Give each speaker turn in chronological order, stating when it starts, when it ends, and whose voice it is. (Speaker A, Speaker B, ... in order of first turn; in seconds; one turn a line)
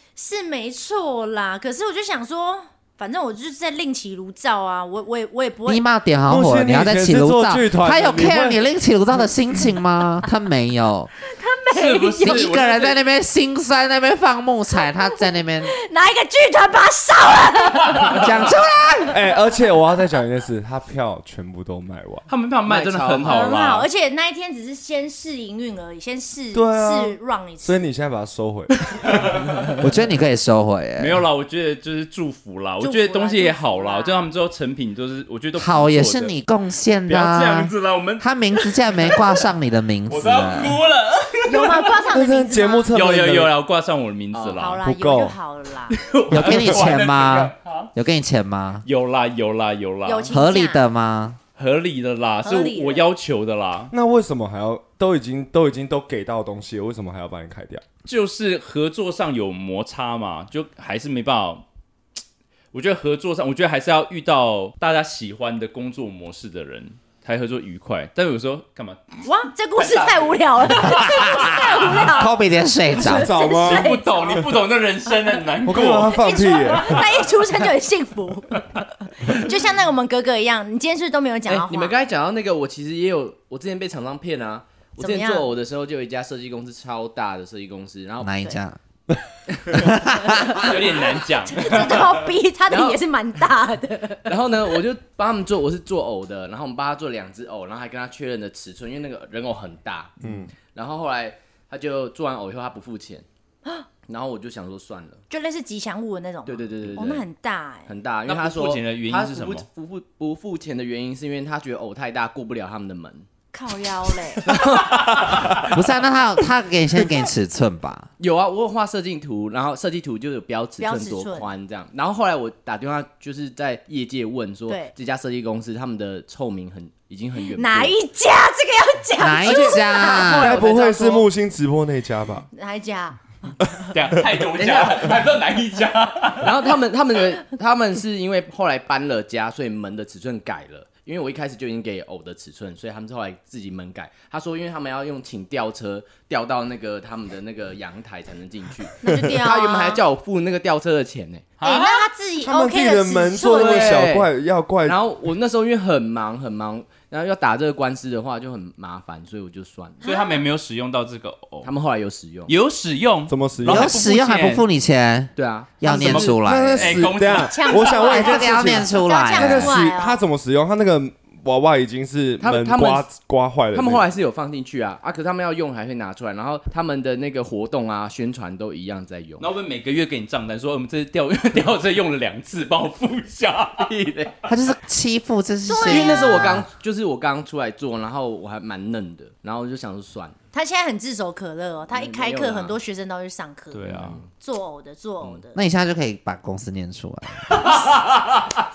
Speaker A: 0.1-5.8
Speaker B: 5.7-11.1
Speaker C: 6.3-8.6
Speaker A: 11.2-12.5
Speaker D: 11.7-13.0
Speaker B: 12.2-15.7
Speaker A: 15.7-18.5
Speaker D: 17.9-18.2
Speaker B: 18.1-19.2
Speaker C: 19.1-22.3
Speaker D: 22.3-23.9
Speaker E: 22.6-23.5
Speaker A: 23.2-27.8
Speaker C: 26.5-29.4
Speaker D: 29.1-29.8
Speaker B: 29.8-31.2
Speaker D: 31.0-36.3
Speaker A: 32.8-34.3
Speaker B: 35.6-40.8
Speaker D: 37.1-39.5
Speaker D: 40.1-42.0
Speaker A: 41.5-42.9
Speaker C: 42.1-43.5
Speaker D: 42.9-44.8
Speaker E: 44.3-44.6
Speaker A: 44.6-46.0
Speaker C: 44.8-45.4
Speaker D: 45.9-47.9
Speaker B: 46.3-48.8
Speaker C: 46.4-46.9
Speaker D: 48.8-50.3
Speaker A: 50.0-50.8
Speaker B: 50.3-51.4
Speaker D: 51.6-53.9
Speaker A: 52.4-53.0
Speaker C: 53.9-57.8
Speaker D: 58.0-61.6
Speaker D: 62.7-69.2
Speaker A: 69.2-74.5
Speaker D: 69.8-71.8
Speaker B: 70.8-73.4
Speaker C: 73.0-74.4
Speaker D: 73.6-77.3
Speaker C: 75.6-77.0
Speaker A: 76.0-78.7
Speaker A: 79.2-82.0
Speaker E: 81.5-88.3
Speaker A: 84.9-85.5
Speaker B: 88.2-88.8
Speaker E: 89.5-89.8
Speaker B: 89.7-90.7
Speaker A: 90.2-94.3
Speaker D: 90.5-92.2
Speaker E: 92.7-93.0
Speaker E: 94.2-103.2
Speaker C: 100.2-100.5
Speaker E: 104.1-105.2
Speaker A: 105.3-107.9
Speaker E: 106.5-107.2
Speaker E: 107.9-113.3
Speaker D: 108.2-109.6
Speaker A: 113.5-114.5
Speaker E: 114.4-115.7
Speaker D: 114.5-115.5
Speaker B: 115.7-118.1
Speaker E: 118.2-127.9
Speaker A: 120.8-121.5
Speaker A: 127.5-130.4
Speaker B: 129.2-130.6
Speaker E: 129.4-131.3
Speaker C: 130.4-132.4
Speaker A: 132.5-133.7
Speaker D: 133.9-136.8
Speaker E: 134.5-135.2
Speaker E: 136.4-151.5
Speaker A: 149.0-150.0
Speaker C: 149.0-149.4
Speaker D: 151.6-152.1
Speaker A: 151.6-154.1
Speaker C: 152.4-155.0
Speaker E: 153.6-154.3
Speaker E: 154.8-160.0
Speaker A: 160.0-160.4
Speaker D: 160.0-161.7
Speaker E: 161.6-162.5
Speaker D: 162.4-164.6
Speaker C: 163.3-163.9
Speaker B: 163.7-167.0
Speaker E: 165.3-165.8
Speaker C: 165.8-174.1
Speaker D: 165.8-168.0
Speaker A: 167.3-170.2
Speaker B: 168.0-169.7
Speaker E: 172.4-173.1
Speaker E: 173.7-179.5
Speaker D: 179.4-183.9
Speaker E: 183.8-184.3
Speaker B: 184.4-186.7
Speaker A: 185.7-186.4
Speaker E: 185.8-190.3
Speaker A: 190.5-195.6
Speaker E: 191.9-192.8
Speaker D: 193.7-194.2
Speaker E: 193.9-194.3
Speaker B: 195.5-197.9
Speaker D: 197.7-198.1